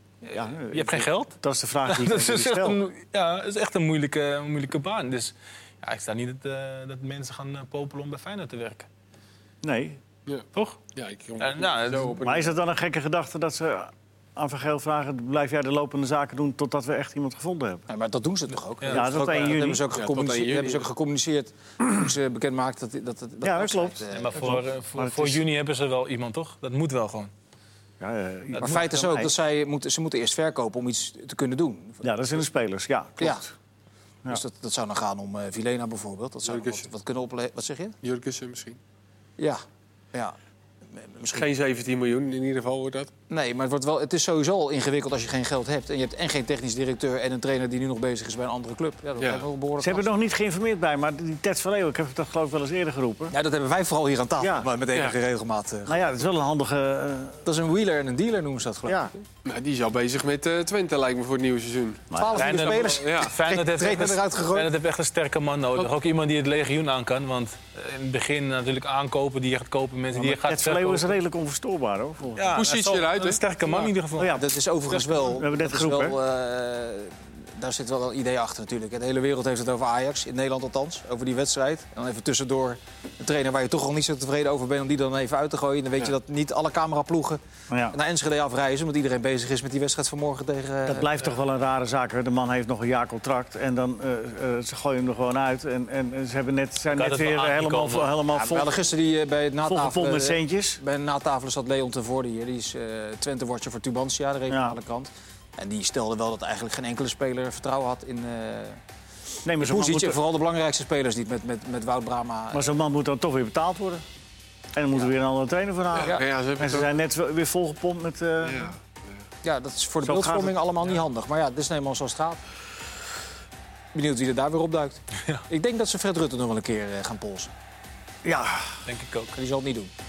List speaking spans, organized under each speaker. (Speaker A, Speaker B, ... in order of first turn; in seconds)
Speaker A: 0.2-1.4, 1.9-8.9, 10.5-10.8, 11.4-12.2, 18.8-19.1, 24.1-27.3, 62.4-71.2, 72.4-74.4, 96.9-98.1, 128.8-129.3
Speaker B: 0.3-2.8, 9.6-10.0, 12.2-17.9, 18.9-19.8, 23.4-25.4, 28.0-29.3, 32.0-33.5, 49.8-53.3, 54.4-54.7, 55.9-57.5, 62.1-62.5, 70.1-72.7, 74.2-76.2, 87.7-88.0, 90.9-98.7, 99.7-100.8, 104.5-104.8, 109.4-110.2, 112.5-114.0, 114.7-118.7, 120.0-120.5, 128.2-128.8
Speaker C: 10.3-12.5, 19.9-20.9, 36.4-36.9, 38.0-38.8, 41.3-43.1, 49.2-49.5, 59.4-63.4, 72.5-73.9, 115.9-116.9, 118.4-119.2
Speaker D: 17.9-24.6, 28.6-32.0, 34.3-38.0, 39.4-40.4, 41.0-41.4, 43.3-50.1, 53.3-56.0, 57.4-59.2, 62.1-64.7, 74.2-91.2, 98.3-108.8, 109.6-112.7, 119.4-122.4, 123.9-127.5, 129.3-129.9